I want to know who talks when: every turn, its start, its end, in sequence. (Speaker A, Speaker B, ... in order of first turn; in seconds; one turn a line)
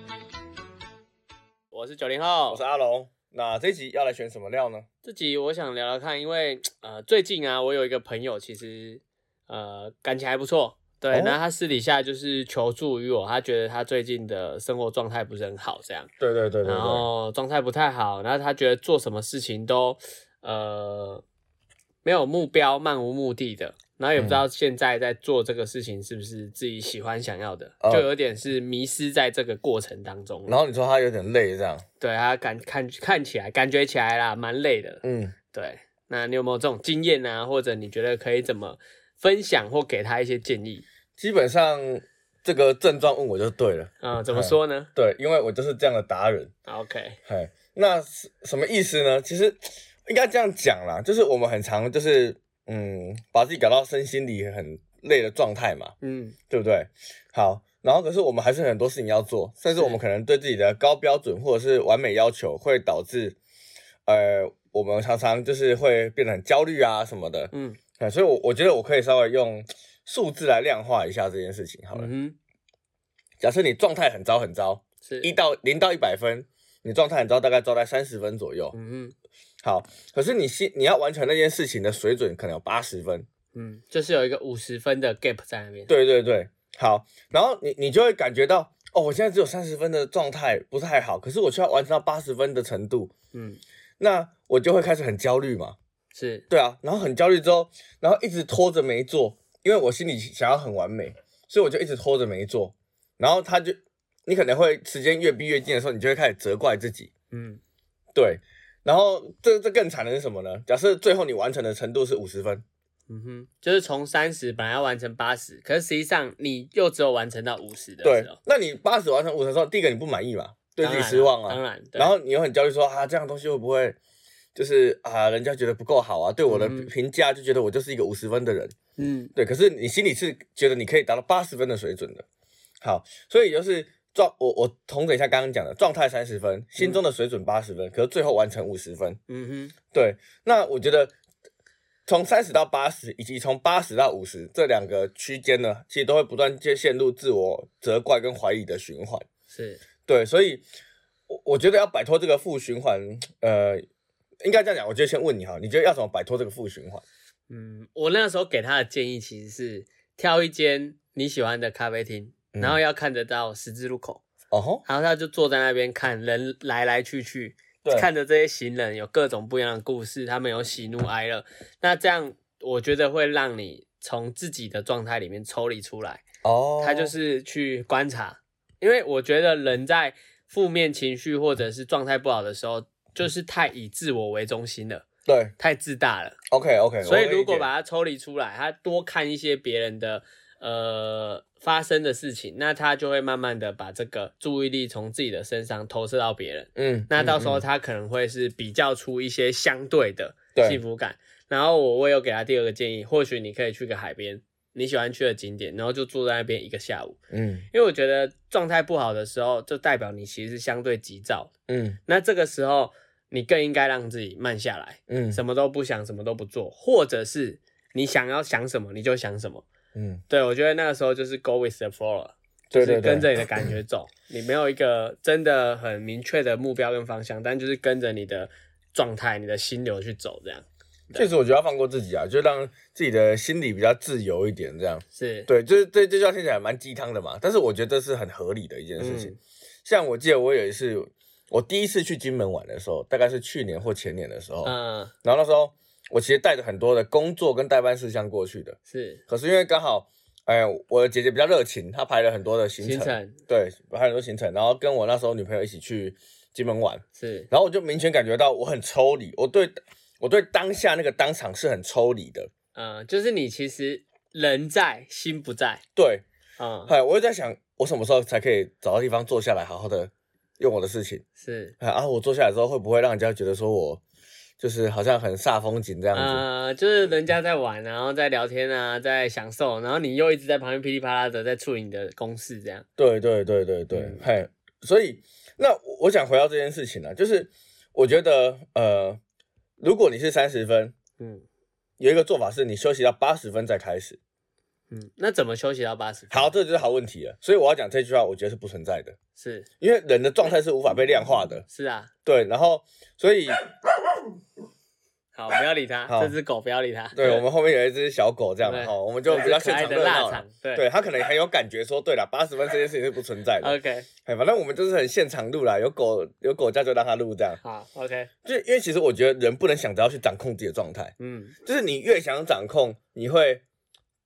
Speaker A: 1.7-2.6
Speaker B: 2.5-4.8
Speaker A: 5.0-16.1
Speaker B: 11.1-11.4
Speaker B: 16.2-17.1
Speaker A: 16.6-21.2
Speaker A: 22.0-30.6
Speaker B: 24.1-24.4
Speaker B: 27.8-28.1
Speaker B: 30.5-31.8
Speaker A: 32.0-40.8
Speaker B: 35.0-35.4
Speaker B: 41.2-46.5
Speaker A: 44.0-44.9
Speaker A: 46.6-47.2
Speaker B: 47.3-55.9
Speaker A: 56.0-56.4
Speaker B: 56.5-63.4
Speaker A: 59.8-60.0
Speaker B: 64.0-72.1
Speaker A: 67.5-67.8
Speaker A: 71.9-72.3
Speaker B: 73.4-78.7
Speaker A: 75.0-75.3
Speaker A: 78.7-79.1
Speaker B: 79.6-83.3
Speaker A: 83.5-85.9
Speaker B: 85.9-93.1
Speaker A: 93.3-93.6
Speaker B: 94.0-95.8
Speaker A: 96.1-96.4
Speaker B: 96.5-107.1
Speaker A: 107.3-107.6
Speaker B: 108.1-112.6
Speaker A: 113.1-118.3
Speaker B: 118.0-124.0
Speaker A: 120.8-122.1
Speaker B: 124.5-128.7
Speaker A: 126.5-126.9
Speaker A: 129.0-129.3
Speaker B: 129.3-132.2
Speaker B: 132.8-139.2
Speaker A: 139.3-139.7
Speaker B: 139.9-141.1
Speaker B: 142.1-149.2
Speaker A: 149.5-149.8
Speaker B: 150.1-150.6
Speaker B: 151.3-153.8
Speaker B: 154.4-157.0
Speaker A: 157.5-164.2
Speaker B: 164.5-164.8
Speaker A: 164.8-176.2
Speaker B: 176.4-177.1
Speaker A: 176.8-185.0
Speaker B: 185.2-185.5
Speaker A: 185.6-186.3
Speaker B: 186.5-187.7
Speaker A: 187.0-207.2
Speaker B: 196.8-197.6
Speaker B: 200.5-200.8
Speaker B: 207.3-207.7
Speaker A: 207.7-211.5
Speaker B: 211.7-212.0
Speaker A: 212.1-219.7
Speaker B: 215.1-215.4
Speaker B: 219.9-220.2
Speaker A: 220.3-231.3
Speaker B: 222.7-223.7
Speaker B: 231.1-248.8
Speaker A: 235.1-235.5
Speaker A: 239.0-239.4
Speaker A: 244.6-245.1
Speaker A: 248.9-249.2
Speaker B: 249.3-262.5
Speaker A: 252.8-253.4
Speaker A: 257.1-257.5
Speaker A: 262.7-265.8
Speaker B: 265.9-266.2
Speaker A: 266.6-266.9
Speaker B: 266.9-271.2
Speaker A: 271.4-271.7
Speaker B: 271.8-274.0
Speaker B: 274.6-276.4
Speaker A: 276.1-282.9
Speaker B: 283.0-289.2
Speaker A: 283.9-284.2
Speaker B: 289.8-290.9
Speaker A: 291.2-291.4
Speaker B: 292.0-294.2
Speaker A: 294.9-296.5
Speaker B: 296.3-299.1
Speaker A: 299.3-299.7
Speaker B: 299.8-301.6
Speaker A: 301.7-302.1
Speaker B: 302.2-303.6
Speaker A: 305.3-307.4
Speaker B: 306.1-306.3
Speaker B: 307.1-313.7
Speaker A: 308.6-310.8
Speaker A: 313.6-314.1
Speaker B: 314.2-317.6
Speaker A: 317.6-318.3
Speaker B: 318.4-321.1
Speaker A: 321.2-321.6
Speaker B: 321.6-323.6